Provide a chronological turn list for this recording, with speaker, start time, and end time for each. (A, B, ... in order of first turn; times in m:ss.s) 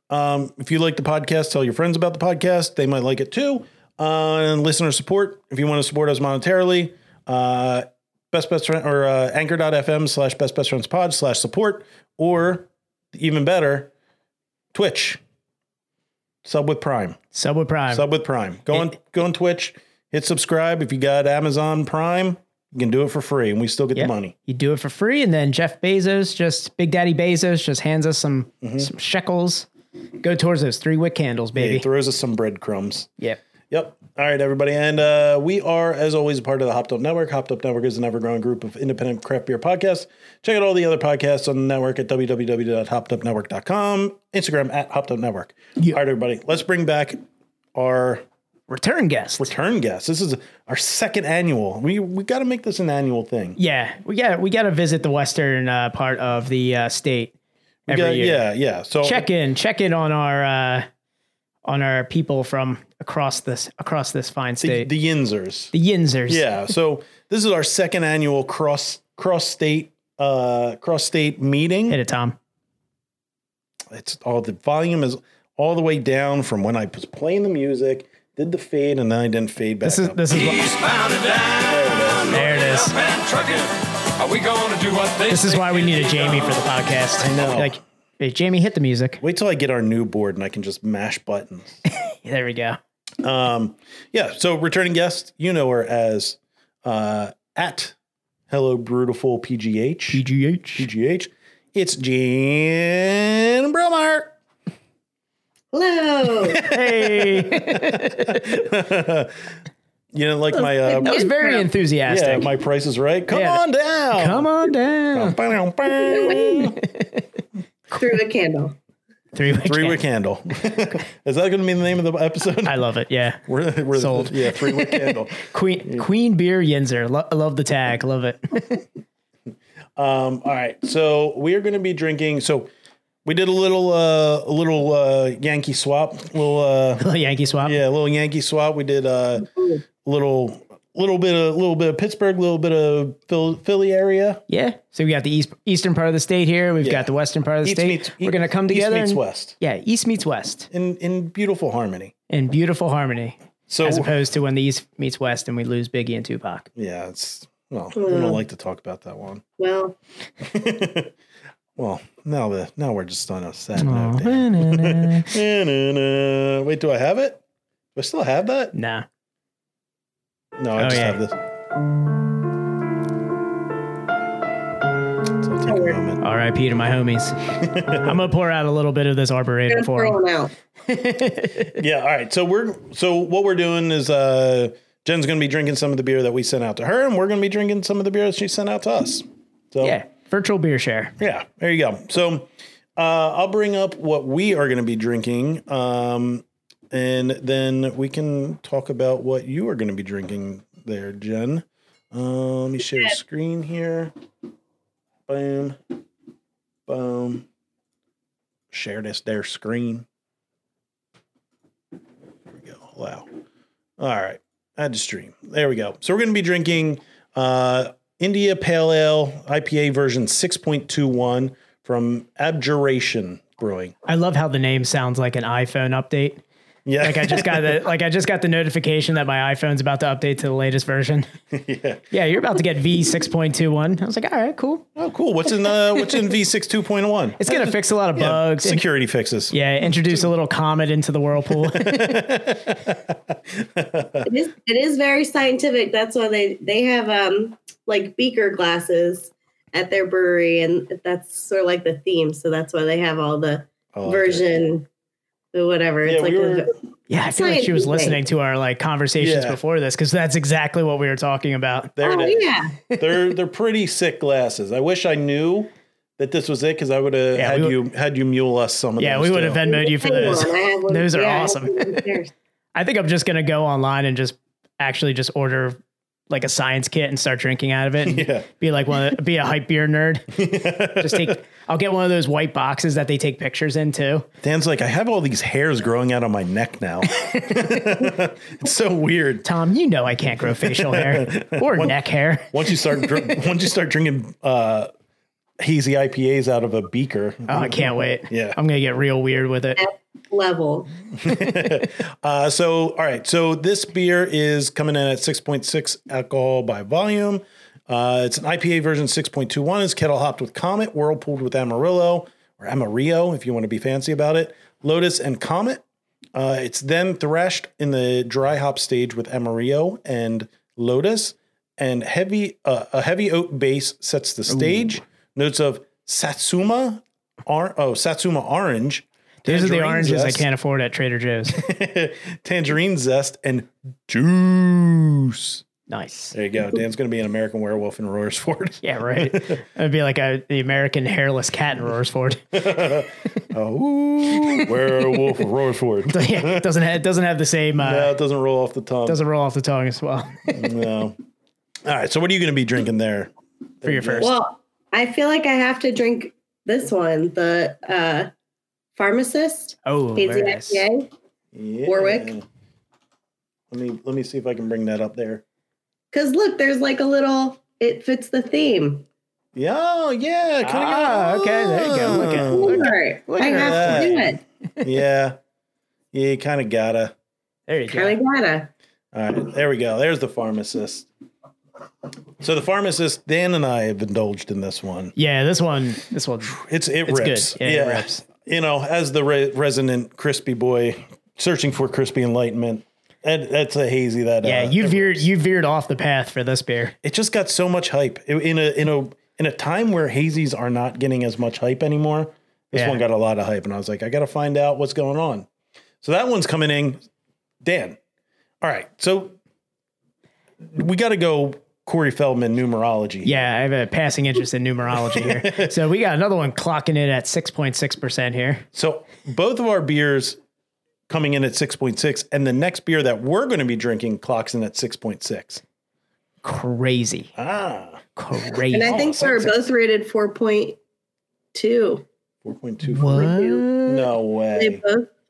0:00.1-0:13.9 A
0:14.7-0:15.2 A
0:16.4-0:17.2 A
0:17.3-0:18.1 B
0:17.9-0:24.3 A
0:24.0-0:29.7 B
0:28.6-0:28.9 A
0:30.2-0:31.8 B
0:31.6-0:33.1 A
0:33.7-0:47.2 A
0:47.7-0:48.2 A
0:48.7-0:49.5 B
0:49.4-0:53.6 A
0:53.6-0:57.3 B
0:57.9-0:58.4 B
0:57.9-0:59.2 A
0:59.0-1:00.9 B
1:01.6-1:04.9 B
1:04.6-1:05.7 A
1:05.7-1:06.5 B
1:06.3-1:12.0 A
1:11.9-1:12.4 B
1:13.9-1:20.3 A
1:19.8-1:20.8 B
1:21.6-1:22.7 A
1:22.3-1:23.0 B
1:23.1-1:23.6 C
1:24.2-1:25.8 C
1:25.3-1:29.2 B
1:27.2-1:27.8 A
1:29.2-1:31.8 A
1:31.8-1:32.8 B
1:33.2-1:37.9 A
1:38.5-1:40.2 A
1:40.1-1:40.9 B
1:40.8-1:44.3 A
1:45.7-1:46.6 D
1:46.5-1:49.4 A
1:46.6-1:48.5 B
1:50.1-1:51.3 A
1:50.5-1:51.7 D
1:51.0-1:52.5 B
1:52.1-1:54.5 A
1:53.3-1:53.6 B
1:54.1-1:55.4 B
1:55.1-1:56.8 A
1:56.0-1:56.7 D
1:56.8-1:57.3 B
1:57.9-1:58.8 D
1:59.3-2:00.0 B
1:59.6-2:02.8 A
2:02.6-2:08.8 B
2:03.5-2:06.1 A
2:10.0-2:12.7 A
2:13.2-2:17.0 A
2:17.0-2:17.8 B
2:17.6-2:19.5 A
2:20.0-2:24.4 A
2:24.5-2:30.7 B
2:26.8-2:27.1 A
2:27.6-2:29.5 A
2:30.7-2:32.1 A
2:32.3-2:36.7 B
2:33.7-2:34.1 A
2:36.7-2:39.4 A
2:37.9-2:38.4 D
2:39.6-2:39.9 D
2:40.4-2:41.1 A
2:41.8-2:47.4 A
2:43.8-2:45.3 B
2:47.9-2:48.7 A
2:48.7-2:49.0 B
2:50.6-2:51.3 A
2:50.8-2:51.2 B
2:55.4-2:56.2 A
2:55.7-2:56.0 D
2:56.2-2:57.4 B
2:57.5-2:58.2 A
2:58.0-3:00.2 B
2:59.7-3:00.5 D
3:00.9-3:01.8 B
3:01.8-3:10.0 A
3:09.8-3:11.1 B
3:11.2-3:24.1 A
3:25.3-3:25.8 A
3:26.9-3:27.4 A
3:28.7-3:30.0 A
3:32.6-3:33.3 A
3:34.0-3:43.9 A
3:44.1-3:46.4 B
3:46.8-3:47.8 A
3:47.0-3:51.3 B
3:51.5-3:52.0 A
3:52.1-3:54.9 B
3:55.0-4:00.2 A
3:57.4-3:58.8 B
3:59.5-4:02.5 B
4:01.5-4:04.3 A
4:04.2-4:14.9 D
4:13.9-4:14.4 A
4:15.5-4:16.7 D
4:16.0-4:16.7 A
4:17.1-4:21.9 B
4:17.3-4:18.2 D
4:19.2-4:19.6 A
4:22.0-4:29.7 A
4:22.0-4:22.7 D
4:27.3-4:27.8 B
4:29.0-4:32.0 B
4:29.6-4:32.3 D
4:32.7-4:35.8 B
4:36.3-4:40.3 B
4:38.0-4:38.4 A
4:40.3-4:41.4 A
4:41.0-4:44.3 B
4:44.4-4:49.5 A
4:47.1-4:48.0 B
4:49.4-4:53.0 B
4:50.5-4:52.0 A
4:52.5-4:54.9 A
4:55.6-4:58.6 A
4:57.5-4:59.8 B
4:59.8-5:00.9 D
5:01.2-5:15.8 A
5:16.3-5:30.5 A
5:24.5-5:25.0 B
5:29.4-5:31.6 B
5:31.5-5:35.6 A
5:35.9-5:36.3 B
5:36.3-5:39.6 A
5:38.8-5:43.4 B
5:42.5-5:46.7 A
5:44.3-5:44.7 B
5:46.1-5:48.1 B
5:47.8-5:49.2 A
5:49.0-5:50.7 B
5:50.5-5:51.2 A
5:51.8-5:54.3 A
5:53.8-5:54.3 B
5:54.2-5:58.3 D
5:59.0-6:01.1 D
5:59.8-6:00.8 B
6:01.5-6:02.4 A
6:01.8-6:02.3 D
6:03.7-6:05.4 A
6:06.1-6:09.0 D
6:09.5-6:12.9 A
6:10.6-6:14.8 B
6:12.2-6:14.4 D
6:13.4-6:15.4 A
6:16.1-6:17.1 A
6:17.7-6:18.2 B
6:17.9-6:18.7 D
6:19.1-6:21.1 A
6:22.4-6:25.1 A
6:25.2-6:28.2 B
6:26.5-6:35.2 A
6:34.4-6:36.9 B
6:37.0-6:45.5 A
6:42.7-6:43.0 B
6:46.0-6:47.0 A
6:47.6-6:48.0 A
6:48.6-6:49.3 A
6:50.6-6:53.3 A
6:53.2-6:58.6 B
6:54.9-6:55.7 A
6:58.7-7:00.4 A
7:01.1-7:05.6 A
7:06.4-7:07.3 B
7:07.4-7:08.0 A
7:08.2-7:09.5 B
7:08.7-7:10.8 D
7:08.8-7:09.6 A
7:11.5-7:12.0 D
7:12.4-7:13.3 A
7:12.8-7:14.1 B
7:13.1-7:13.6 D
7:13.8-7:14.8 A
7:14.6-7:15.1 D